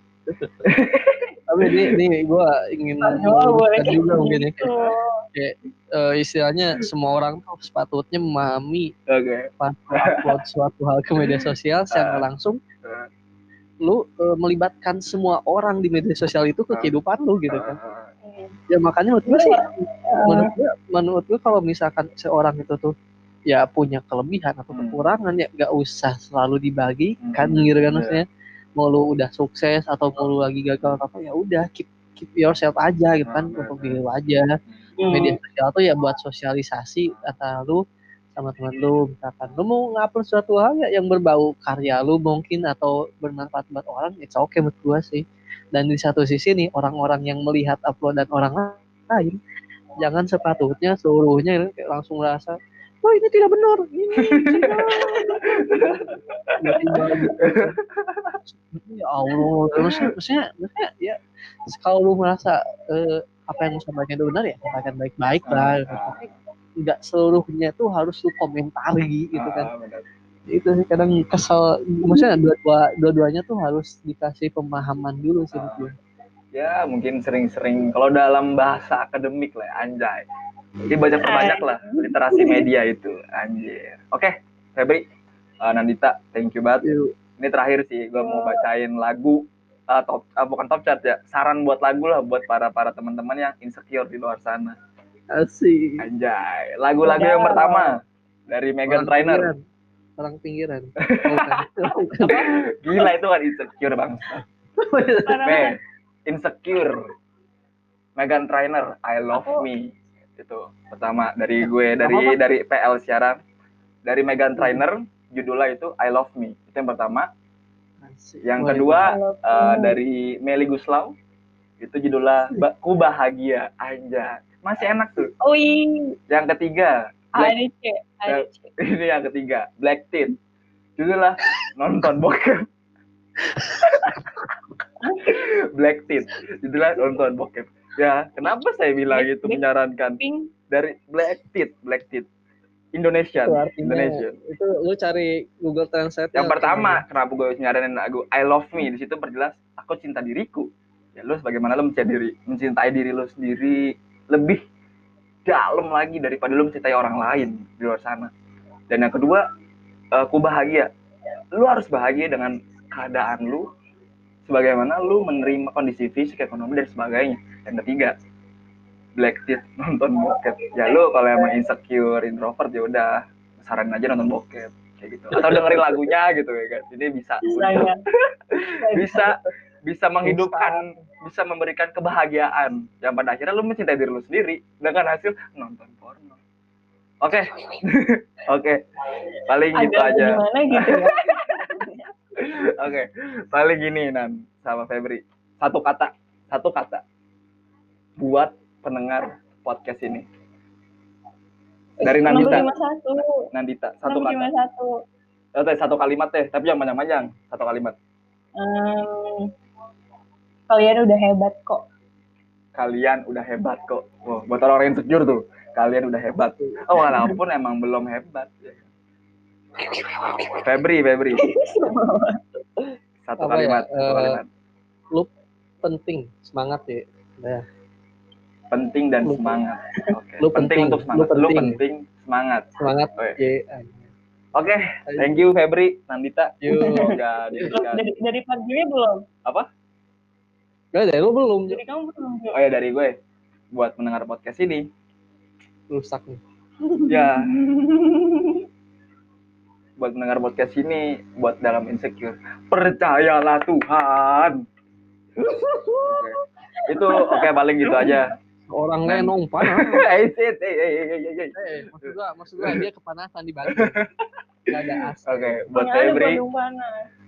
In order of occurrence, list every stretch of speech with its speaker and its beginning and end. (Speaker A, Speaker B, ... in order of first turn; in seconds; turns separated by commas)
Speaker A: 0.3-0.6, Speaker B: 0.6-1.9, Speaker A: 1.5-4.7, Speaker C: 3.0-5.2, Speaker B: 4.7-4.9, Speaker A: 5.3-8.9, Speaker B: 9.1-10.3, Speaker A: 9.6-12.6, Speaker B: 11.2-12.2, Speaker B: 12.8-13.1, Speaker A: 13.8-17.8, Speaker B: 17.5-18.1, Speaker C: 18.2-18.5, Speaker A: 18.7-22.9, Speaker C: 19.3-20.5, Speaker A: 23.5-28.2, Speaker B: 24.7-25.0, Speaker B: 27.2-28.2, Speaker A: 28.8-34.5, Speaker B: 33.2-34.0, Speaker C: 35.0-35.4, Speaker A: 35.1-37.8, Speaker B: 37.0-37.3, Speaker A: 38.3-49.4, Speaker A: 50.0-57.8, Speaker B: 54.2-54.7, Speaker C: 55.1-55.4, Speaker B: 55.4-58.4, Speaker A: 58.4-66.2, Speaker B: 65.5-66.3, Speaker A: 66.8-69.7, Speaker B: 69.3-70.1, Speaker A: 70.5-75.9, Speaker B: 75.5-75.8, Speaker B: 76.5-80.2, Speaker B: 80.9-85.0, Speaker C: 81.2-82.7, Speaker B: 85.6-86.8, Speaker A: 86.8-87.1, Speaker B: 87.4-94.8, Speaker C: 88.2-88.6, Speaker A: 95.3-96.0, Speaker B: 96.0-99.5, Speaker A: 97.0-98.0, Speaker A: 98.9-99.6, Speaker A: 100.2-102.5, Speaker B: 101.0-101.6, Speaker B: 102.2-104.4, Speaker A: 104.8-105.6, Speaker C: 105.3-105.7, Speaker B: 105.4-107.1, Speaker B: 108.2-113.4, Speaker C: 109.4-109.7, Speaker A: 112.0-112.3, Speaker B: 114.0-117.3, Speaker A: 118.0-119.1, Speaker B: 118.4-121.1, Speaker C: 119.0-120.0, Speaker B: 121.8-125.3, Speaker C: 125.4-126.2, Speaker B: 126.3-127.5, Speaker C: 127.4-128.7, Speaker B: 128.3-130.3, Speaker B: 131.0-132.6, Speaker C: 135.0-135.4, Speaker B: 135.3-142.3, Speaker C: 139.1-139.6, Speaker C: 140.2-140.5, Speaker B: 142.9-144.4, Speaker A: 143.4-147.0, Speaker B: 146.3-154.6, Speaker B: 155.4-158.3, Speaker B: 158.9-159.4, Speaker B: 160.1-160.9, Speaker B: 161.5-163.7, Speaker B: 164.4-168.1, Speaker B: 169.2-179.3, Speaker C: 170.5-171.5, Speaker C: 177.4-178.0, Speaker C: 178.8-179.3, Speaker B: 179.8-186.4, Speaker A: 180.2-180.9, Speaker B: 187.2-188.8, Speaker B: 189.5-191.7, Speaker C: 189.7-192.1, Speaker B: 192.4-197.0, Speaker B: 198.2-200.2, Speaker C: 202.0-203.3, Speaker B: 202.0-202.7, Speaker B: 203.5-204.5, Speaker C: 204.1-204.9, Speaker B: 205.6-207.9, Speaker C: 208.6-209.5, Speaker C: 210.7-211.8, Speaker B: 212.7-218.8, Speaker C: 220.0-220.6, Speaker B: 220.6-221.9, Speaker C: 221.3-222.4, Speaker B: 223.2-224.5, Speaker A: 223.4-224.4, Speaker A: 225.8-227.6, Speaker B: 228.7-233.4, Speaker A: 229.2-229.6, Speaker A: 230.4-231.8, Speaker A: 232.8-234.1, Speaker B: 234.5-238.0, Speaker A: 235.1-235.4, Speaker A: 236.6-237.7, Speaker C: 237.7-239.2, Speaker A: 240.9-241.8, Speaker C: 241.7-242.6, Speaker B: 242.5-243.2, Speaker B: 243.7-244.9, Speaker A: 245.9-246.4, Speaker C: 246.8-248.6, Speaker B: 247.1-247.6, Speaker B: 250.0-254.6, Speaker B: 256.0-258.3, Speaker C: 256.9-258.2, Speaker A: 258.7-260.1, Speaker B: 259.1-262.8, Speaker A: 261.5-264.0, Speaker B: 263.7-264.1, Speaker A: 264.7-265.7, Speaker B: 265.2-266.4, Speaker C: 265.7-267.1